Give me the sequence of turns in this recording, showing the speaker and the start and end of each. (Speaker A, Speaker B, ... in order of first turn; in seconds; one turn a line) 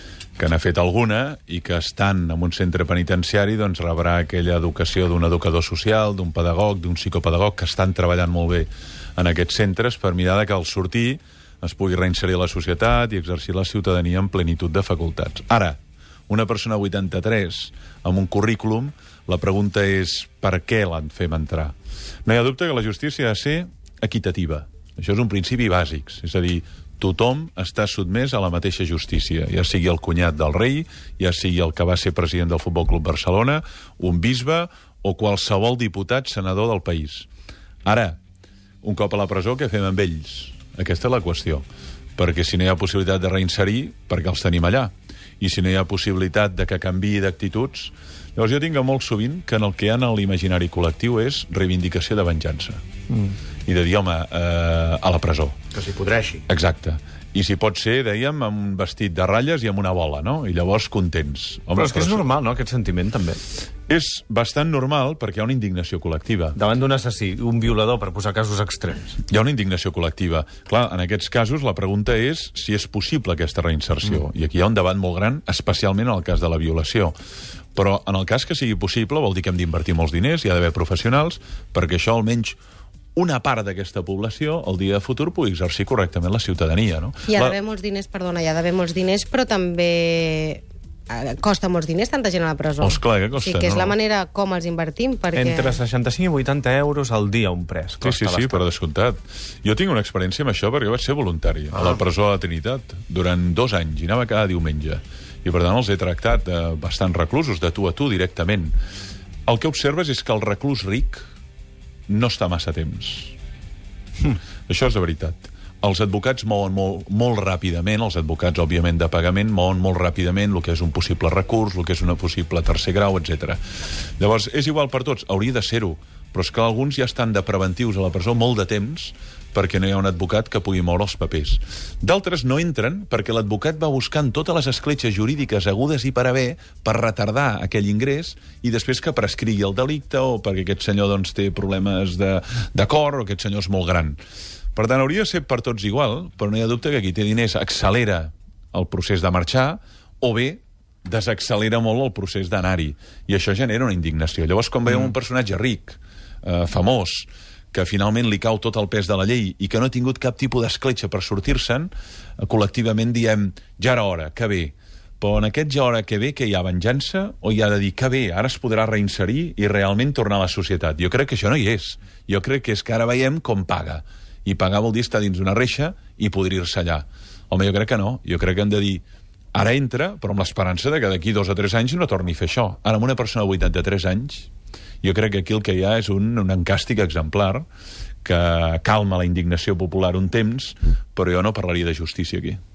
Speaker A: 0.4-21.7
Speaker A: 22.2-37.3
Speaker A: 37.8-38.2
Speaker A: 38.8-41.6
Speaker A: 42.2-52.8
Speaker B: 53.1-53.3
Speaker A: 53.6-55.6
Speaker B: 55.8-56.4
Speaker A: 56.5-62.2
Speaker B: 61.7-63.4
Speaker A: 63.9-66.5
Speaker B: 66.5-69.2
Speaker A: 69.3-77.1
Speaker A: 77.8-82.6
Speaker A: 83.2-87.5
Speaker C: 87.2-95.8
Speaker A: 92.8-94.0
Speaker B: 95.3-98.6
Speaker A: 98.0-108.7
Speaker A: 109.5-111.2
Speaker A: 112.1-113.3
Speaker A: 114.2-123.6
Speaker A: 124.2-144.2
Speaker A: 144.8-179.0
Speaker B: 154.9-155.1
Speaker A: 179.5-184.5
Speaker A: 185.0-187.6
Speaker A: 188.2-192.6